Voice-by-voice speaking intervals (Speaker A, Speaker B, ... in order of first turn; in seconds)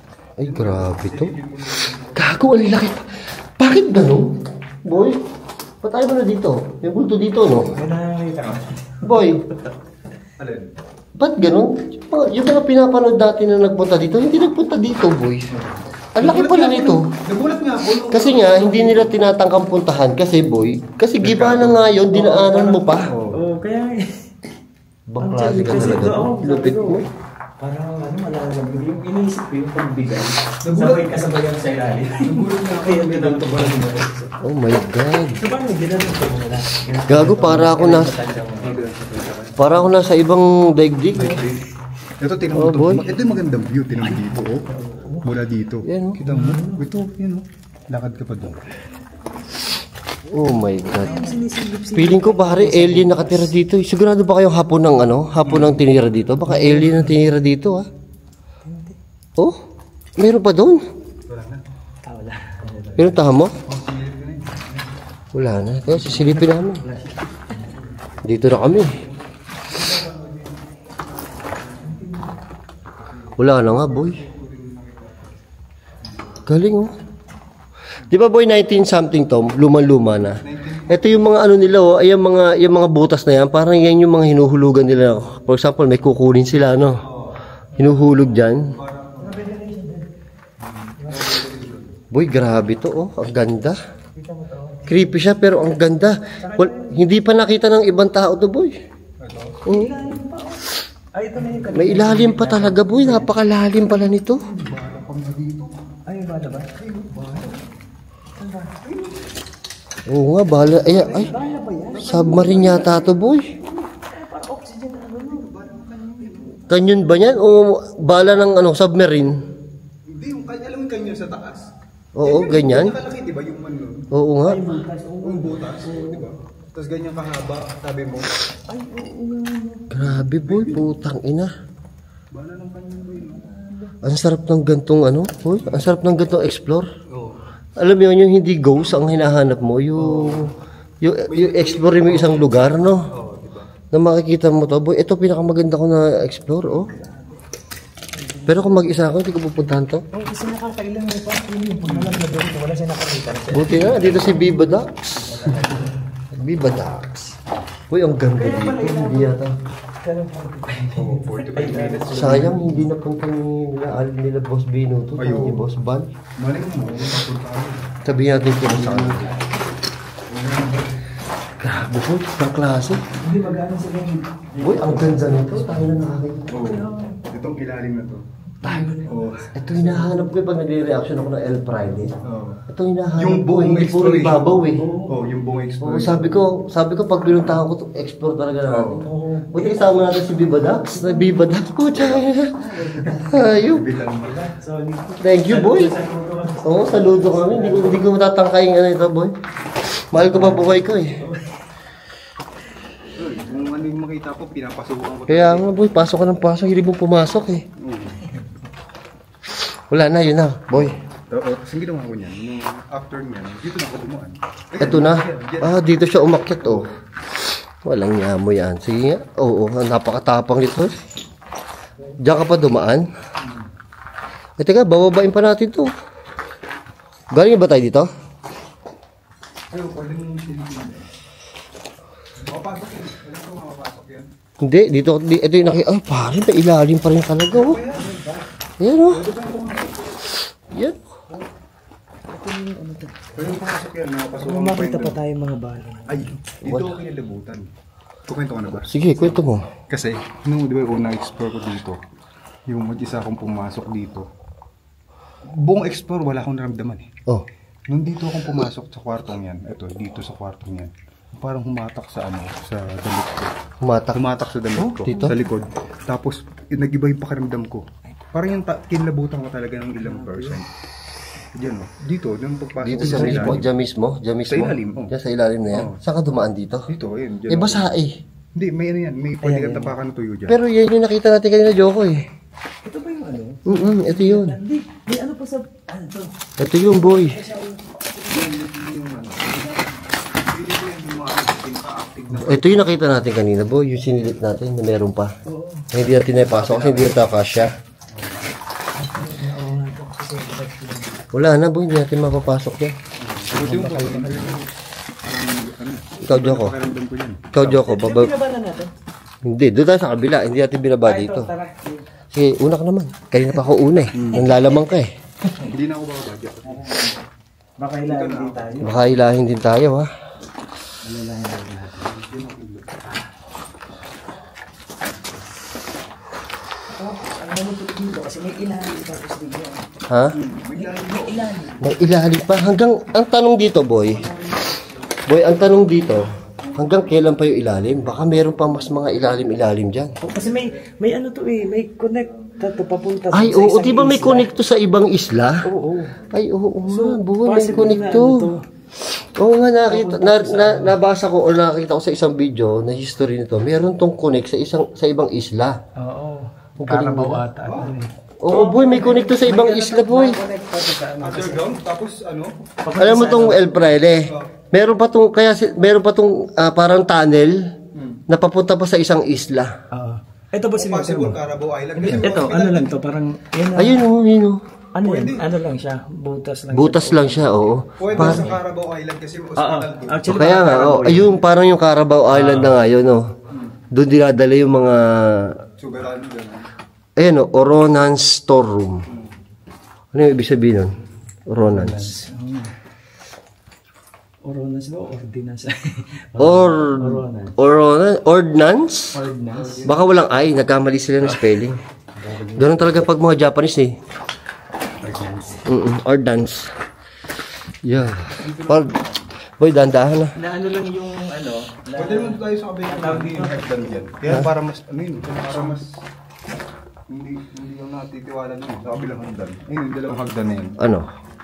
Speaker A: 0.4-1.3, 2.1-5.2, 5.8-7.7, 9.0-9.4, 11.2-15.4, 16.1-17.0, 18.1-23.1, 25.1-27.0, 34.4-35.4, 37.1-38.2, 39.6-41.4, 42.5-43.0, 45.8-46.2, 50.3-51.2, 51.9-57.9, 60.2-60.8, 63.0-63.5, 65.3-66.8, 68.2-69.0, 73.4-74.2, 76.5-76.9, 78.1-87.0, 87.8-88.7, 92.1-93.8, 94.9-98.8, 99.7-99.9, 101.7-104.4, 110.1-111.3, 112.0-113.5, 116.7-119.3, 122.1-123.0, 124.1-124.7, 129.9-131.5, 134.0-136.9, 137.8-140.5, 141.0-143.0, 143.9-146.9, 148.5-150.0, 153.5-155.4, 156.3-157.3, 157.9-159.5, 162.1-166.1, 168.0-169.3, 171.6-173.0, 174.6-176.8, 178.6-179.0, 179.5-182.2, 182.7-184.8, 185.8-192.5, 193.3-193.8, 195.2-195.9, 196.6-199.3, 200.1-201.2, 205.3-207.6, 209.9-211.0, 214.8-216.8, 217.8-221.0, 222.2-223.1, 224.6-225.9, 227.3-228.1, 234.6-237.8, 238.8-239.2, 240.7-241.0, 246.6-247.0, 248.9-249.7, 263.8-264.2, 265.1-265.3, 272.8-276.9, 277.5-278.1, 280.5-282.2, 283.6-284.6, 286.6-287.4, 292.4-295.3, 295.9-297.7, 301.3-302.9, 306.2-306.7, 307.5-308.3, 309.4-311.5, 312.3-315.1, 318.8-320.1, 330.1-330.4, 331.8-334.3, 335.3-340.2, 343.3-345.6, 346.2-348.5, 349.1-355.8, 356.8-357.4, 358.4-360.4, 363.0-367.6, 368.3-369.7, 373.8-374.6, 376.7-378.5, 380.3-383.3, 383.9-385.6, 387.2-389.0, 390.1-390.9, 391.5-392.2, 396.4-399.2, 399.8-401.8, 402.6-403.9, 405.7-406.7, 407.8-408.9, 409.6-410.3, 420.8-421.1
Speaker B: 0.4-2.8, 10.4-10.7, 16.2-19.1, 21.2-21.8, 23.1-23.4, 30.6-31.2, 32.2-33.9, 38.6-39.6, 41.1-41.6, 42.2-44.7, 45.2-48.6, 55.4-55.8, 61.3-61.6, 63.6-64.8, 69.7-70.6, 73.0-75.4, 76.1-76.3, 80.4-81.2, 87.0-89.4, 90.6-92.0, 99.2-99.6, 104.4-105.7, 106.8-107.5, 110.9-111.4, 111.9-113.0, 115.2-116.7, 120.1-121.7, 122.2-124.1, 125.2-128.4, 130.0-130.9, 132.3-133.5, 135.6-135.9, 137.1-137.4, 139.9-140.5, 141.3-143.7, 151.9-152.2, 160.9-162.8, 165.2-165.7, 166.4-168.0, 176.5-178.2, 179.0-179.5, 182.2-182.6, 183.2-186.3, 188.7-189.1, 193.6-194.3, 203.1-205.8, 207.8-208.2, 210.8-215.8, 223.4-223.7, 229.7-231.1, 232.4-234.3, 237.5-238.1, 239.1-240.2, 243.3-245.2, 246.1-247.7, 248.3-252.0, 252.7-254.3, 255.5-257.1, 257.9-263.5, 264.1-270.6, 271.5-273.7, 274.5-275.1, 276.9-277.9, 278.5-280.6, 288.3-289.9, 290.4-292.9, 296.3-297.2, 298.1-298.4, 303.2-304.6, 305.2-307.7, 314.1-314.5, 315.6-316.8, 318.1-318.8, 322.0-323.0, 330.3-331.6, 357.6-357.9, 361.2-362.5, 367.9-368.2, 370.7-372.9, 375.0-375.4, 378.0-380.2, 385.8-386.7, 399.2-400.0, 408.4-409.1, 411.9-415.9, 417.1-420.8
Speaker C: 7.7-9.7, 22.1-24.3, 25.2-27.1, 27.6-34.4, 35.3-38.8, 44.0-45.3, 46.2-46.9, 50.9-53.5, 56.5-57.2, 58.6-59.0, 62.0-63.1, 65.9-67.7, 71.7-72.3, 89.2-90.1, 91.0-91.4, 94.1-95.1, 96.4-97.0, 99.7-103.3, 106.1-106.7, 108.4-109.0, 110.8-115.5, 116.3-116.7, 124.4-126.3, 128.7-129.9, 133.3-133.9, 146.9-147.3, 148.2-148.8, 150.1-156.0, 158.3-159.3, 160.0-162.8, 166.8-167.1, 168.7-169.5, 170.3-170.9, 173.2-175.9, 176.5-177.2, 178.6-180.2, 184.8-185.2, 189.0-190.0, 192.5-193.6, 194.2-198.0, 200.2-201.6, 237.9-238.4, 242.3-243.3, 244.4-246.4, 264.8-265.3, 270.0-270.6, 273.0-273.6, 279.4-279.9, 282.8-288.6, 295.4-295.9, 298.9-301.2, 303.6-304.6, 307.6-308.9, 311.0-312.0, 316.6-317.2, 317.8-319.0, 321.0-322.1, 327.0-329.8, 330.8-331.9, 340.2-344.5, 345.6-346.2, 346.9-348.6, 349.9-351.0, 356.0-361.7, 362.8-363.8, 369.9-371.4, 371.9-374.0, 374.9-377.5, 378.1-378.6, 379.6-381.4, 382.3-382.8, 391.6-392.7, 394.4-397.6, 399.1-399.9, 402.1-403.0, 405.0-405.7, 410.4-413.7